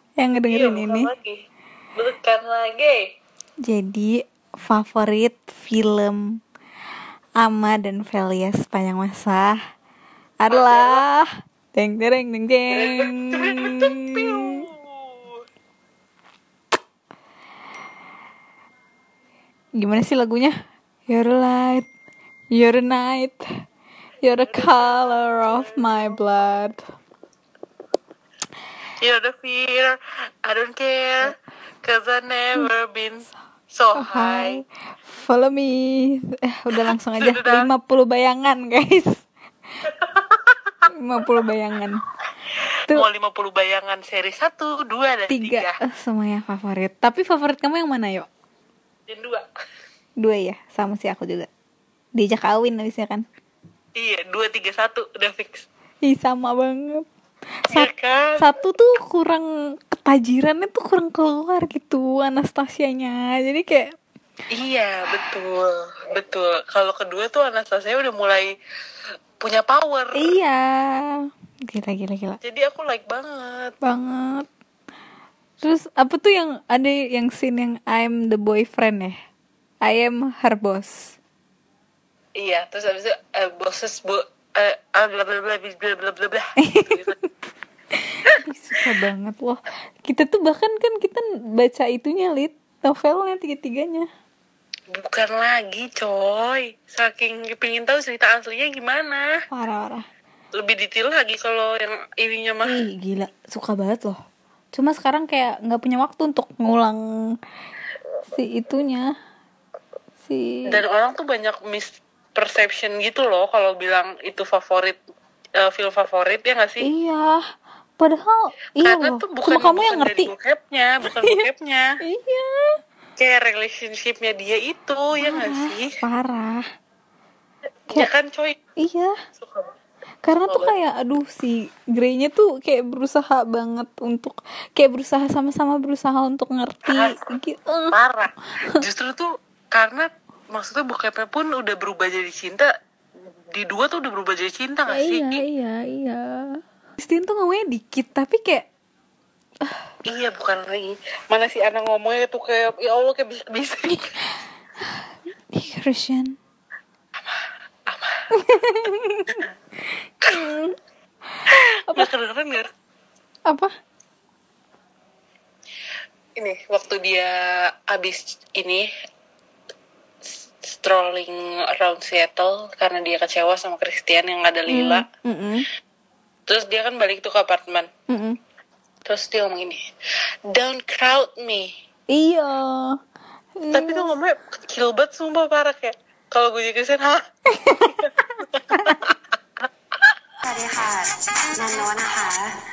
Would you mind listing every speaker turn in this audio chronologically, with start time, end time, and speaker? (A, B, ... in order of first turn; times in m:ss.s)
0:00.2-0:01.1 A
0:00.4-0:01.4 B
0:02.0-0:03.0 B
0:03.7-0:06.2 A
0:07.4-0:09.5 A
0:10.4-0:11.2 A
0:10.5-0:11.0 B
0:11.8-0:13.9 A
0:12.7-0:15.4 B
0:19.8-0:20.5 A
0:21.1-0:21.8 A
0:22.5-0:23.4 A
0:24.2-0:26.8 A
0:24.4-0:26.1 B
0:29.0-0:34.6 B
0:33.9-0:34.6 A
0:35.2-0:39.1 A
0:36.7-0:37.7 B
0:39.8-0:40.7 B
0:41.0-0:42.0 A
0:42.9-0:45.8 B
0:45.3-0:48.2 A
0:49.1-0:49.5 B
0:50.2-0:51.5 A
0:52.2-0:53.2 A
0:54.0-0:55.7 B
0:56.1-0:57.0 A
0:57.7-0:58.5 B
0:58.4-1:03.9 A
1:04.5-1:08.5 B
1:09.4-1:10.3 B
1:10.1-1:10.6 A
1:11.7-1:12.4 A
1:12.4-1:13.7 B
1:13.8-1:14.4 A
1:15.6-1:19.2 A
1:19.8-1:21.0 A
1:22.4-1:27.1 B
1:26.6-1:26.9 A
1:28.5-1:34.0 A
1:34.9-1:39.3 B
1:39.5-1:40.0 A
1:40.5-1:42.8 B
1:42.7-1:44.2 A
1:44.7-1:47.0 A
1:48.3-1:49.0 A
1:50.3-1:50.8 A
1:50.7-1:55.0 B
1:55.6-1:56.8 B
1:56.8-1:57.4 A
1:58.0-2:00.3 A
1:58.8-2:01.9 B
2:02.1-2:02.4 A
2:03.2-2:06.0 B
2:05.2-2:06.6 A
2:07.9-2:08.6 B
2:08.8-2:09.1 A
2:09.4-2:09.7 B
2:10.2-2:17.9 A
2:10.5-2:10.7 B
2:16.9-2:17.1 B
2:17.9-2:22.7 B
2:23.5-2:25.4 B
2:24.9-2:26.3 A
2:27.0-2:28.6 A
2:30.1-2:34.2 B
2:35.5-2:36.3 A
2:37.2-2:38.2 B
2:38.4-2:39.3 A
2:40.4-2:40.7 A
2:41.5-2:42.7 B
2:46.4-2:48.9 B
2:50.6-2:55.0 B
2:54.7-2:55.6 A
2:56.5-2:57.9 B
2:58.1-2:58.4 A
2:59.0-2:59.8 B
3:00.5-3:01.7 B
3:02.1-3:02.8 A
3:03.6-3:04.0 A
3:03.7-3:07.2 B
3:07.8-3:09.7 B
3:10.4-3:12.5 C